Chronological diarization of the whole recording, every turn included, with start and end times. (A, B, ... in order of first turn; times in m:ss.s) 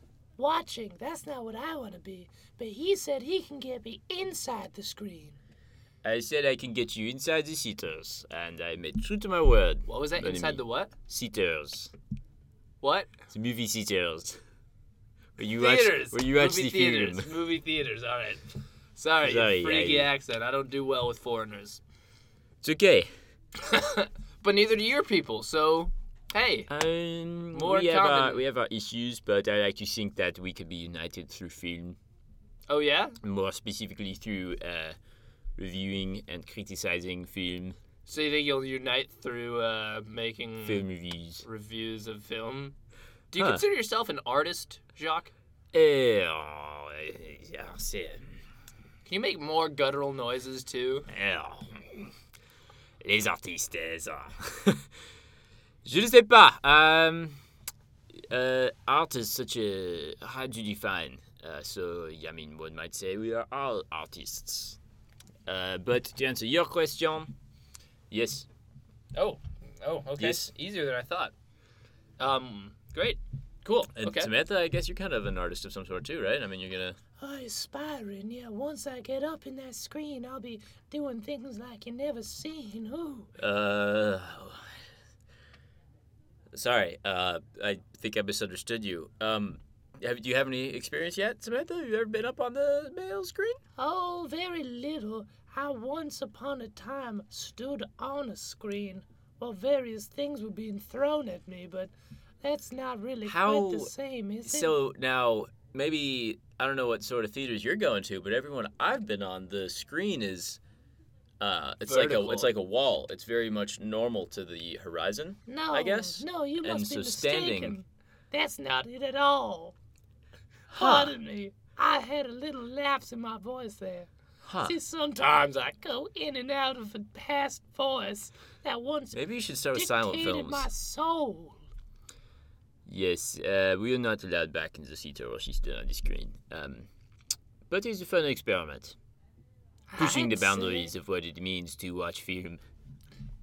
0:00.4-0:05.4 A
0:06.0-0:11.9 B
0:09.9-0:10.9 C
0:12.8-0:13.1 C
0:13.3-0:14.4 B
0:15.4-0:17.4 B
0:15.5-0:18.4 C
0:19.0-0:21.8 C
0:19.2-0:20.1 B
0:22.6-0:23.1 B
0:23.6-0:26.7 C
0:26.7-0:32.0 B
0:27.5-0:28.4 C
0:32.7-0:33.2 C
0:33.2-0:35.0 B
0:35.6-0:37.8 B
0:38.1-0:40.8 C
0:40.6-0:41.4 B
0:41.4-0:42.7 C
0:43.3-0:45.3 C
0:43.4-0:43.6 B
0:45.7-0:48.4 B
0:49.0-0:51.1 C
0:51.1-0:52.1 B
0:53.0-0:54.8 B
0:55.8-0:57.4 B
0:58.3-1:04.8 B
1:05.4-1:07.3 B
1:08.1-1:08.5 B
1:09.1-1:11.3 C
1:10.2-1:10.5 B
1:12.2-1:14.3 C
1:14.0-1:17.0 B
1:17.2-1:23.3 A
1:23.4-1:24.8 B
1:26.5-1:33.6 B
1:33.8-1:44.7 A
1:43.2-1:43.9 B
1:44.4-1:50.6 B
1:51.4-1:57.8 B
1:51.8-1:52.5 C
1:55.5-1:59.8 A
2:00.7-2:01.2 B
2:00.7-2:04.1 A
2:04.4-2:04.8 B
2:04.6-2:09.2 A
2:09.1-2:10.7 B
2:09.7-2:11.6 A
2:12.8-2:16.9 B
2:17.7-2:19.0 B
2:19.9-2:20.9 A
2:20.0-2:22.6 B